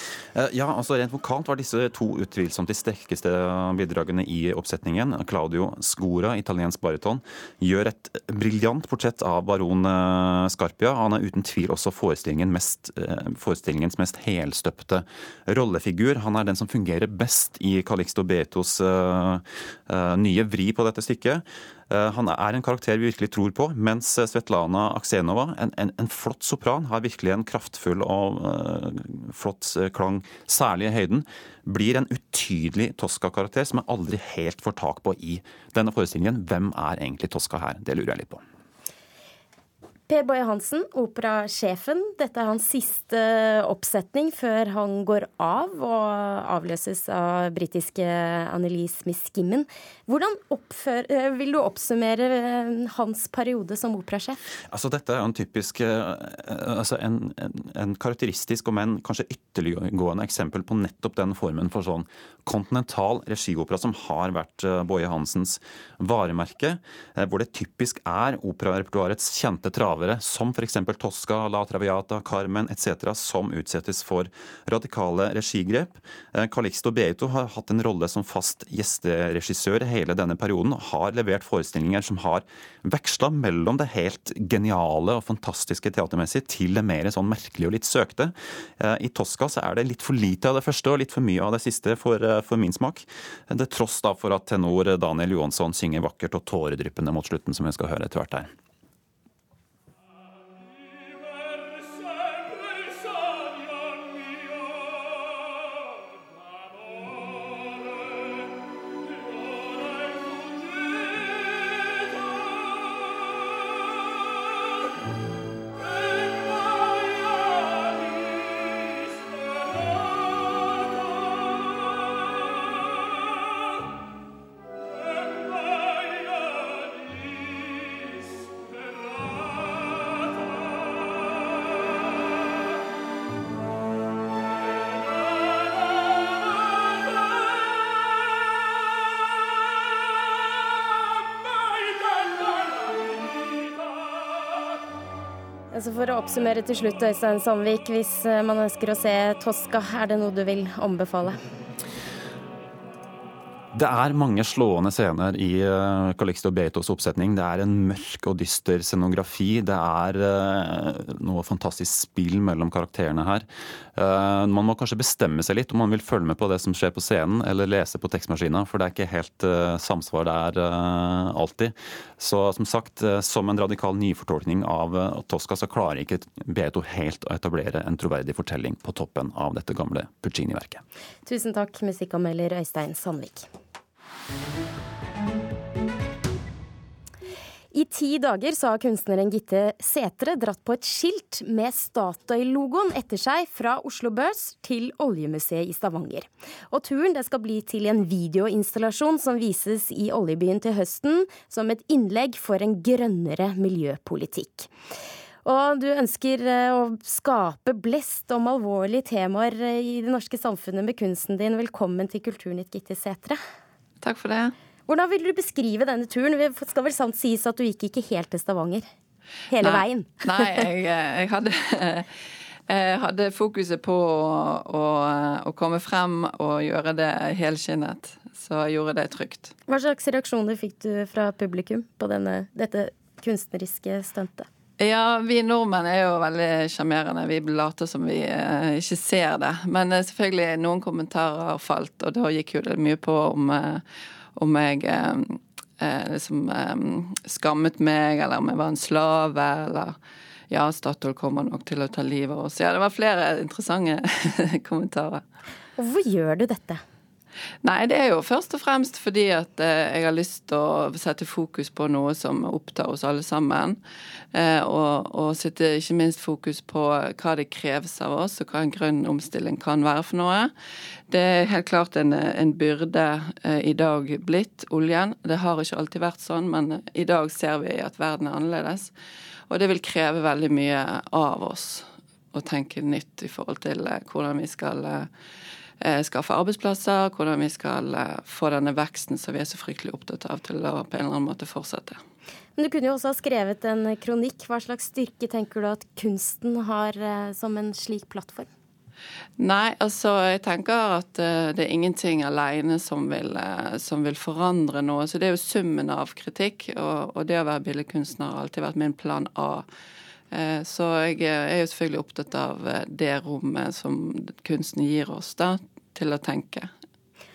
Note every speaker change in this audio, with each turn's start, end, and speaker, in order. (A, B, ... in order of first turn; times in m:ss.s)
0:00.3-0:38.4 A
0:40.1-0:54.4 B
0:54.7-1:38.5 A
2:25.7-2:31.4 B
2:33.7-3:00.8 A
3:01.2-3:03.5 B
3:07.7-3:24.7 B
3:25.4-3:33.4 B
3:34.0-3:34.5 C
3:34.9-3:38.8 B
3:39.5-3:40.6 B
3:39.6-3:42.1 C
3:42.7-3:49.5 C
3:49.7-3:54.5 B
3:54.8-4:03.8 C
4:04.4-4:10.0 C
4:10.5-4:15.2 C
4:15.8-4:16.8 B
4:17.6-4:23.8 C
4:24.3-4:30.5 C
4:31.1-4:38.9 C
4:39.5-4:45.1 C
4:45.8-4:52.0 C
4:52.6-4:58.5 B
4:59.4-5:09.6 C
5:10.3-5:16.7 C